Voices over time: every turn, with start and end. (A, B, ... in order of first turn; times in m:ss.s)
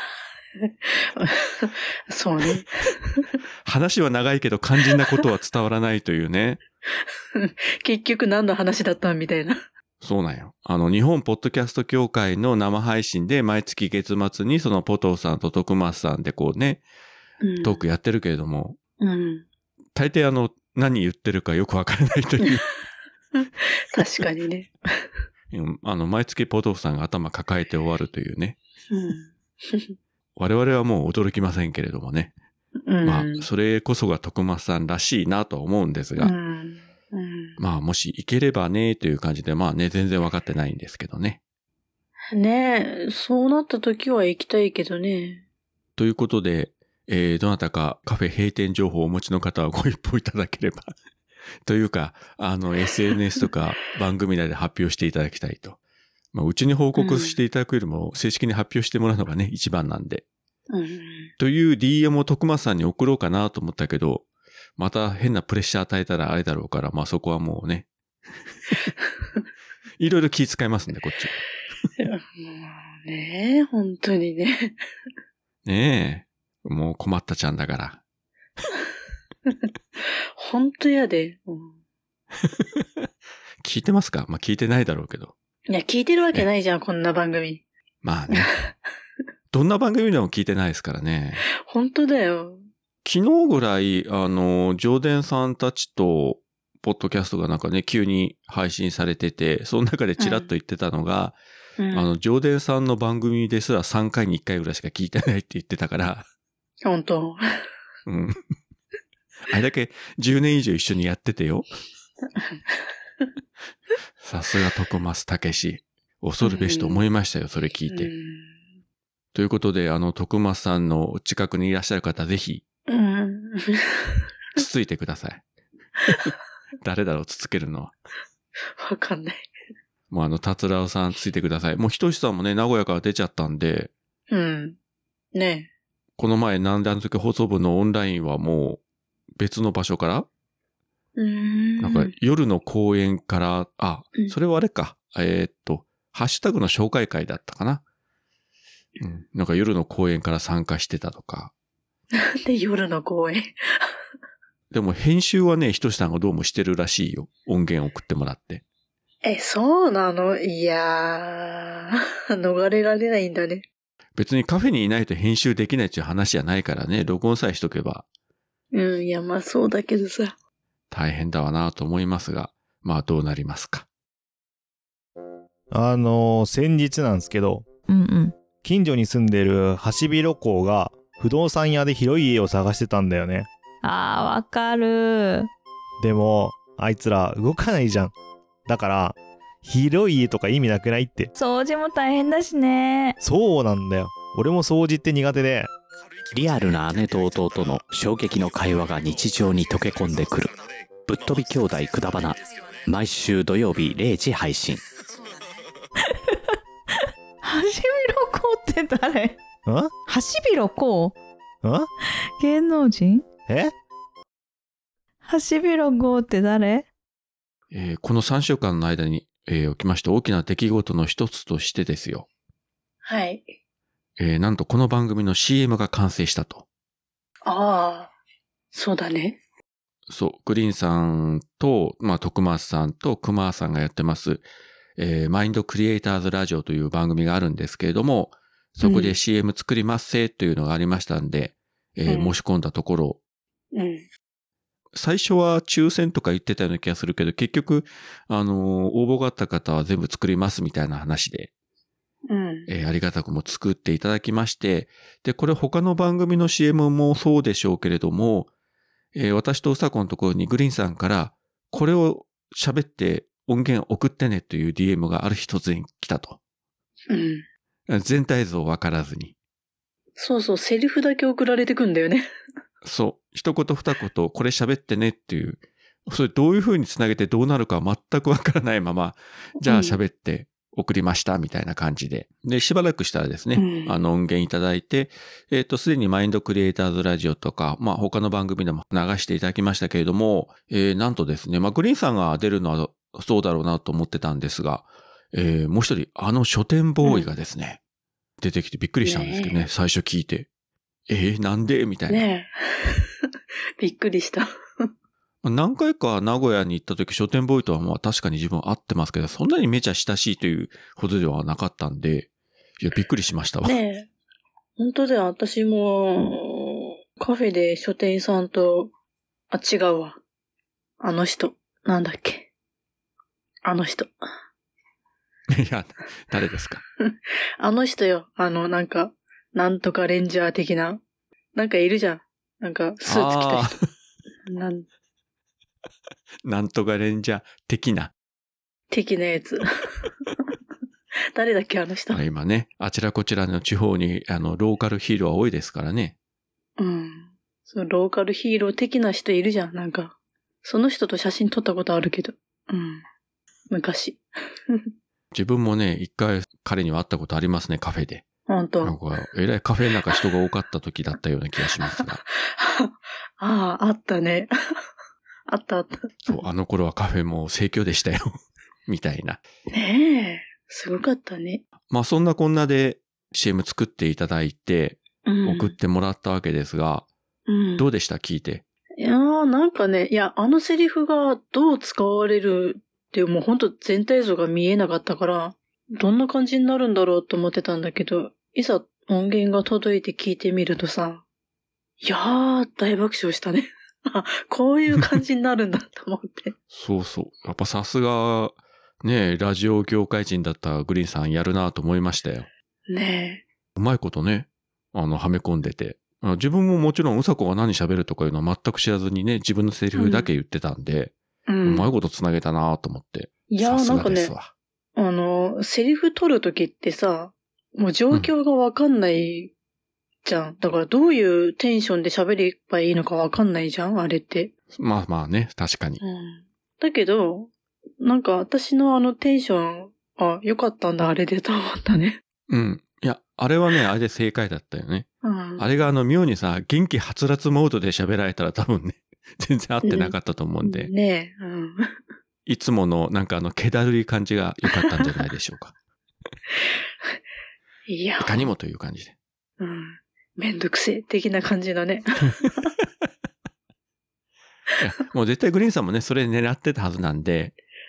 0:00.6-0:03.2 A
0:03.6-0:06.6 B
0:07.4-0:09.6 A
0:10.0-0:16.8 B
0:17.4-0:17.8 A
0:17.6-0:18.8 B
0:19.0-0:19.5 A
0:20.0-0:22.7 B
0:23.4-0:24.7 A
0:25.5-0:28.6 B
0:28.9-0:30.0 A
0:30.4-0:32.3 B
0:32.8-0:33.5 A
0:33.0-0:36.3 B
0:36.2-0:37.6 A
0:37.6-0:41.4 B
0:42.3-0:45.4 A
0:46.0-0:50.9 B
0:51.6-0:55.8 B
0:56.3-1:00.2 B
0:57.0-0:57.4 A
1:00.7-1:01.3 A
1:01.4-1:04.2 B
1:04.8-1:07.9 B
1:10.0-1:11.4 B
1:12.0-1:14.8 A
1:15.6-1:18.0 B
1:20.4-1:21.8 A
1:22.5-1:23.1 B
1:23.6-1:25.3 B
1:25.7-1:27.6 A
1:28.0-1:28.5 B
1:29.5-1:31.4 B
1:31.5-1:32.6 A
1:33.0-1:41.4 B
1:40.2-1:40.5 A
1:41.8-1:42.1 A
1:41.9-1:46.3 B
1:46.8-1:47.4 A
1:48.1-1:48.4 B
1:49.5-1:51.7 B
1:52.4-1:53.3 A
1:54.2-1:58.1 B
1:56.4-1:57.0 A
1:57.9-1:58.6 A
1:59.3-2:02.6 B
2:02.9-2:04.3 A
2:04.6-2:05.4 B
2:06.8-2:07.9 B
2:08.8-2:09.5 A
2:10.1-2:13.9 B
2:14.3-2:14.8 A
2:15.3-2:15.7 A
2:16.2-2:18.8 B
2:19.4-2:20.3 B
2:21.2-2:22.1 A
2:21.8-2:27.8 B
2:29.0-2:31.5 B
2:32.2-2:33.9 A
2:34.7-2:38.6 B
2:39.2-2:43.6 A
2:44.2-2:48.1 B
2:48.7-2:50.4 A
2:50.9-2:53.9 B
2:55.7-2:57.7 C
2:57.9-2:58.3 D
2:58.6-3:03.5 C
3:03.8-3:05.5 D
3:06.0-3:08.1 C
3:08.7-3:11.3 C
3:11.4-3:13.2 D
3:13.2-3:15.7 C
3:16.3-3:20.6 E
3:21.1-3:24.8 E
3:26.0-3:29.4 D
3:29.7-3:29.9 C
3:30.1-3:31.2 D
3:31.6-3:31.9 C
3:32.4-3:33.3 D
3:33.5-3:33.7 C
3:35.2-3:36.9 D
3:37.7-3:42.3 B
3:43.0-3:43.5 A
3:44.2-3:46.6 B
3:47.5-3:48.1 A
3:48.7-3:49.4 A
3:50.1-3:54.4 B
3:55.0-4:03.2 B
3:58.8-3:59.1 A
4:02.1-4:02.3 A
4:03.7-4:04.0 A
4:04.9-4:11.5 B
4:12.3-4:12.7 A
4:12.7-4:18.5 B
4:19.1-4:26.4 B
4:27.1-4:27.4 A
4:27.9-4:29.4 B
4:30.2-4:32.3 A
4:32.8-4:57.8 B
4:39.6-4:40.0 A
4:43.6-4:44.0 A
4:58.4-5:00.5 B
4:59.0-4:59.6 A
5:01.1-5:02.3 B
5:02.1-5:03.1 A
5:03.8-5:04.9 A
5:05.4-5:12.3 B
5:12.8-5:13.8 B
5:13.6-5:14.1 A
5:14.8-5:18.9 A
5:19.5-5:20.2 A
5:21.0-5:22.5 A
5:23.6-5:24.1 A
5:25.5-5:26.8 B
5:27.1-5:31.0 A
5:31.6-5:33.8 A
5:33.1-5:33.8 B
5:34.5-5:34.9 A
5:36.4-5:38.1 B
5:38.9-5:39.6 A
5:41.3-5:42.2 A
5:42.1-5:46.2 B
5:46.8-5:53.0 A
5:53.7-5:54.9 A
5:55.3-5:58.2 B
5:58.5-5:59.0 A
5:58.8-6:02.2 B
6:01.8-6:04.5 A
6:05.5-6:06.4 A
6:06.3-6:08.3 B
6:08.9-6:09.4 B
6:09.7-6:11.6 A
6:11.9-6:17.1 B
6:15.3-6:15.8 A
6:17.5-6:17.9 A
6:17.8-6:18.6 B
6:19.0-6:31.2 A
6:32.0-6:36.5 A
6:36.7-6:42.5 B
6:42.9-6:43.4 A
6:43.8-6:54.5 B
6:50.0-6:50.3 A
6:51.5-6:51.9 A
6:53.5-6:54.3 A
6:55.0-6:59.5 A
7:00.2-7:04.5 A
7:04.7-7:06.0 B
7:06.0-7:12.2 A
7:12.5-7:20.9 B
7:15.2-7:15.6 A
7:19.8-7:21.9 A
7:22.5-7:25.7 B
7:27.9-7:28.5 A
7:28.2-7:29.2 B
7:29.6-7:32.7 A
7:34.8-7:37.6 B